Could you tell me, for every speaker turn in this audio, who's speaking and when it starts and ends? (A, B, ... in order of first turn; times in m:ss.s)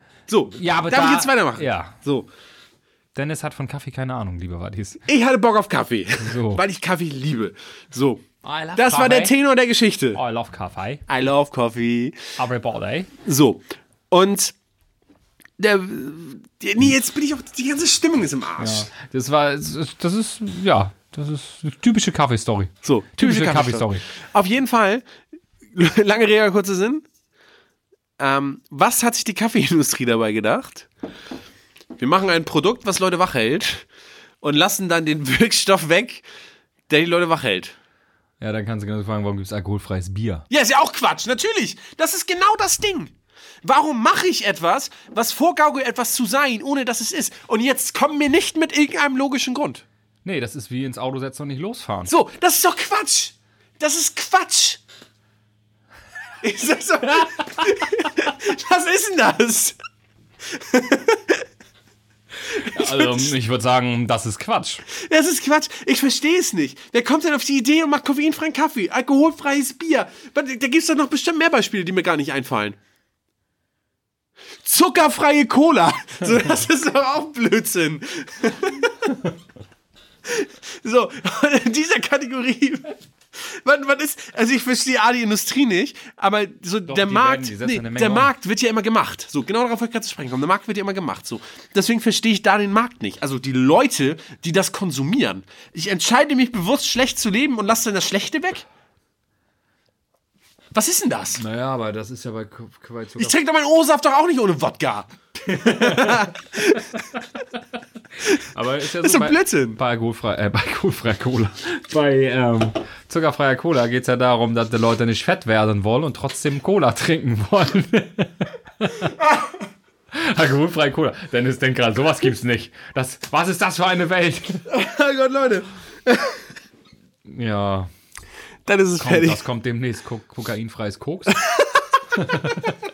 0:00.3-0:02.3 A
0:00.5-0:02.0 B
0:03.1-0:05.0 B
0:05.1-0:08.2 A
0:06.2-0:06.6 B
0:08.4-0:09.3 B
0:08.8-0:10.2 A
0:10.1-0:11.0 B
0:11.1-0:12.3 A
0:12.4-0:13.1 B
0:13.2-0:14.5 A
0:15.6-0:18.9 A
0:18.6-0:24.1 B
0:22.8-0:25.0 A
0:25.7-0:27.0 A
0:28.2-0:30.9 A
0:32.0-0:33.8 A
0:34.4-0:36.2 A
0:36.9-0:37.7 A
0:38.4-0:40.4 B
0:40.5-0:43.1 A
0:43.6-0:49.8 A
0:50.2-0:52.1 B
0:52.1-0:54.8 A
0:56.4-0:59.8 A
1:00.5-1:01.4 A
1:02.5-1:03.3 A
1:02.6-1:04.8 B
1:04.9-1:12.8 A
1:14.6-1:19.2 A
1:20.2-1:38.6 A
1:26.9-1:28.3 B
1:40.7-1:41.4 A
1:41.4-1:43.4 B
1:43.2-1:47.0 A
1:45.5-1:46.8 B
1:48.2-1:59.2 B
1:48.9-1:49.8 A
2:00.1-2:04.6 B
2:04.7-2:06.4 A
2:07.3-2:07.9 B
2:08.7-2:09.4 A
2:09.0-2:11.4 B
2:11.3-2:11.8 A
2:12.1-2:12.8 B